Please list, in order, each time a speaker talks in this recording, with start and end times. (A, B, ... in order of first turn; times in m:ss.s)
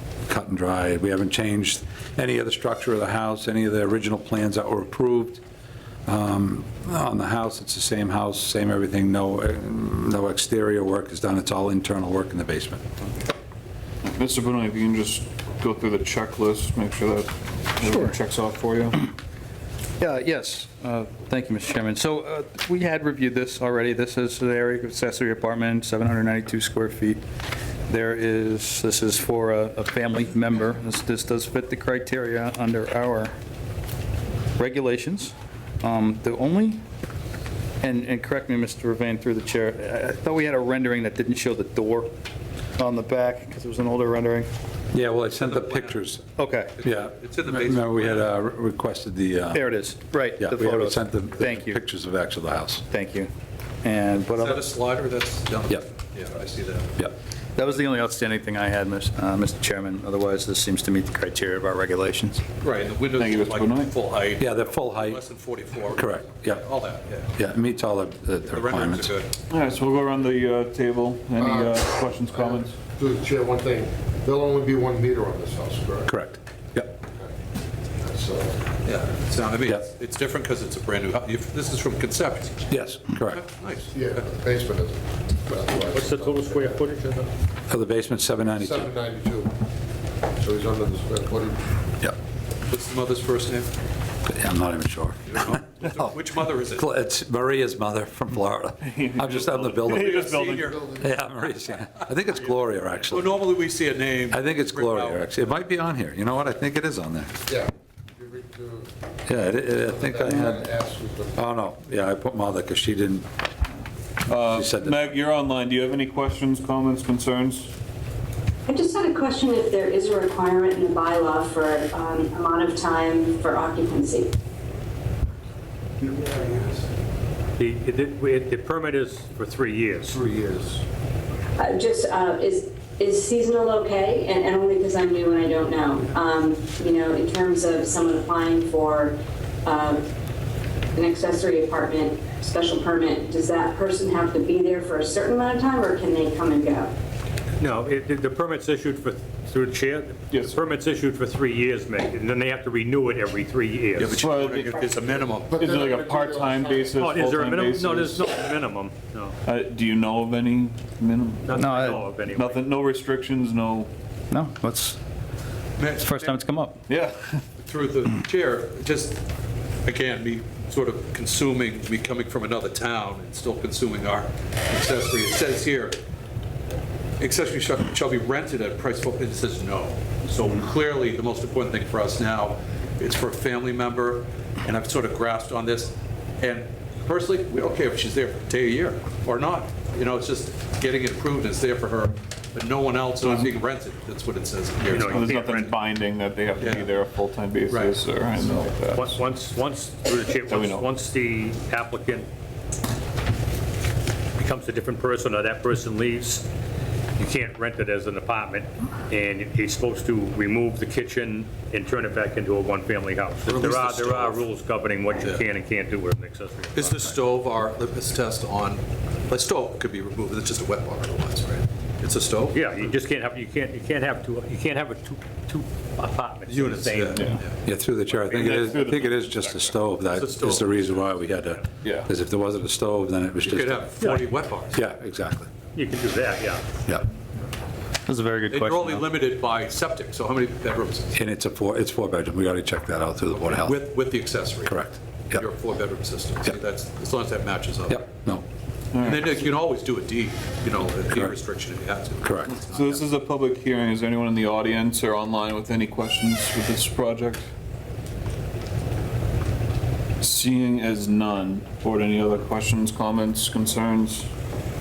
0:00.3-0:05.4 A
0:06.1-0:12.9 A
0:14.0-0:19.0 B
0:17.9-0:18.1 C
0:20.0-0:27.2 C
0:27.9-0:33.3 C
0:34.6-0:36.8 C
0:37.8-0:42.1 C
0:42.8-0:44.5 C
0:44.9-0:46.2 A
0:45.3-0:46.0 D
0:46.4-0:46.7 C
0:46.8-0:48.3 D
0:46.8-0:49.7 A
0:49.5-0:51.8 C
0:50.4-0:52.8 A
0:52.9-0:53.3 C
0:53.8-0:54.6 C
0:54.2-0:57.0 D
0:57.6-1:02.4 C
1:02.6-1:07.3 D
1:03.2-1:03.9 B
1:04.4-1:05.2 A
1:05.9-1:06.6 A
1:07.3-1:09.1 A
1:08.5-1:09.3 D
1:09.5-1:12.8 B
1:11.4-1:16.1 E
1:16.1-1:16.9 A
1:18.0-1:18.6 E
1:18.8-1:22.7 D
1:22.7-1:23.4 A
1:23.3-1:24.2 D
1:23.9-1:26.8 E
1:25.6-1:27.3 F
1:27.7-1:28.9 A
1:28.6-1:29.5 E
1:30.4-1:31.6 E
1:32.7-1:33.7 D
1:34.3-1:36.1 A
1:35.3-1:36.9 D
1:36.7-1:40.3 A
1:38.8-1:40.8 B
1:39.6-1:40.8 D
1:40.5-1:41.1 E
1:41.0-1:43.4 A
1:43.0-1:45.4 D
1:44.3-1:47.4 A
1:47.5-1:48.9 E
1:49.3-1:50.7 A
1:49.8-1:51.4 E
1:51.3-1:53.3 A
1:54.3-1:57.7 B
1:54.4-1:55.1 A
1:58.7-2:04.3 G
2:06.0-2:06.9 E
2:07.6-2:10.2 F
2:10.1-2:10.8 E
2:11.6-2:20.1 G
2:20.9-2:26.9 G
2:27.6-2:34.3 F
2:30.3-2:30.7 B
2:34.0-2:35.5 D
2:34.1-2:34.9 B
2:34.9-2:37.2 E
2:35.5-2:38.3 B
2:37.0-2:39.4 F
2:39.4-2:41.6 B
2:41.4-2:42.6 F
2:41.5-2:42.1 C
2:42.2-2:43.9 B
2:44.3-2:45.0 C
2:45.8-2:46.4 D
2:46.0-2:46.8 C
2:46.9-2:47.4 B
2:47.6-2:49.2 D
2:49.8-2:56.0 D
2:57.2-3:15.2 D
3:14.9-3:15.8 F
3:15.0-3:19.2 B
3:16.6-3:17.0 D
3:17.7-3:18.0 D
3:18.9-3:22.3 F
3:20.5-3:20.9 B
3:24.4-3:26.4 F
3:27.2-3:37.0 F
3:33.5-3:34.5 D
3:36.8-3:42.6 D
3:42.5-3:47.2 F
3:46.5-3:47.6 D
3:47.6-3:54.0 A
3:48.1-3:49.7 F
3:48.4-3:48.9 B
3:50.1-3:51.4 D
3:51.8-3:52.1 B
3:53.4-3:54.8 D
3:54.7-3:55.5 A
3:55.7-3:56.6 F
3:58.1-3:59.0 C
3:58.5-4:01.2 D
4:01.1-4:03.8 A
4:03.3-4:08.1 D
4:04.6-4:05.4 A
4:07.9-4:08.4 A
4:08.9-4:09.3 B
4:09.0-4:13.0 D
4:12.2-4:12.5 A
4:12.7-4:17.5 B
4:20.2-4:24.3 B